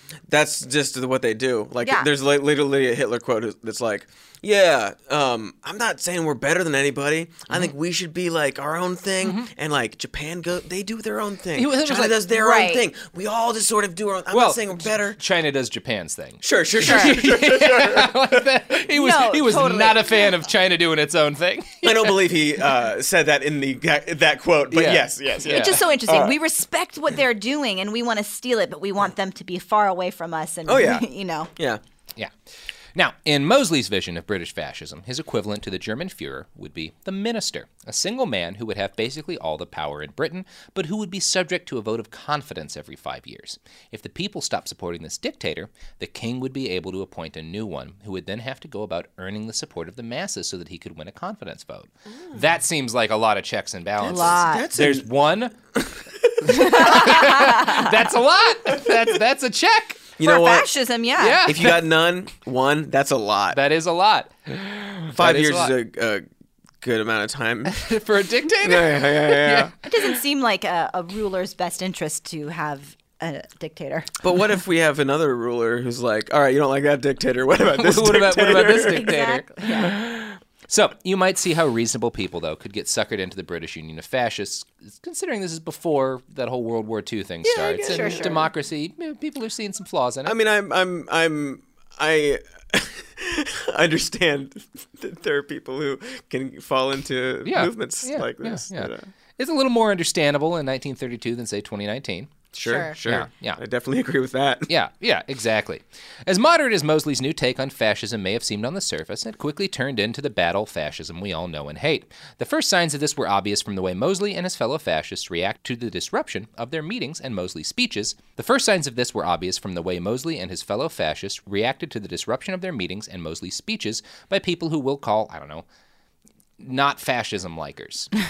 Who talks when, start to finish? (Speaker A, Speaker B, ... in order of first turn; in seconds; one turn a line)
Speaker A: 0.3-15.2
Speaker B: 1.8-2.1
Speaker C: 9.2-9.5
Speaker C: 11.6-12.2
Speaker B: 12.3-12.8
Speaker C: 14.3-22.3
Speaker A: 16.4-18.5
Speaker B: 16.8-17.2
Speaker B: 18.9-20.3
Speaker A: 21.8-26.4
Speaker C: 24.7-25.8
Speaker B: 25.5-31.5
Speaker A: 30.7-31.8
Speaker C: 33.0-55.6
Speaker A: 54.0-55.0
Speaker B: 54.0-54.7
Speaker A: 56.2-57.2
Speaker C: 56.5-60.1
Speaker B: 56.5-57.9
Speaker A: 60.2-60.8
Speaker B: 60.2-61.5
Speaker C: 61.2-61.9
Speaker A: 61.5-63.6
Speaker C: 63.5-65.8
Speaker A: 65.2-66.2
Speaker A: 66.8-67.8
Speaker C: 67.7-69.7
Speaker A: 68.6-69.7
Speaker B: 69.8-74.1
Speaker A: 74.2-79.2
Speaker C: 77.7-90.3
Speaker B: 78.9-80.0
Speaker B: 87.5-88.5
Speaker A: 87.5-88.5
Speaker A: 90.3-99.1
Speaker C: 97.5-102.3
Speaker A: 102.5-104.7
Speaker B: 102.7-103.0
Speaker C: 103.0-103.6
Speaker C: 104.7-125.7
Speaker C: 126.6-128.1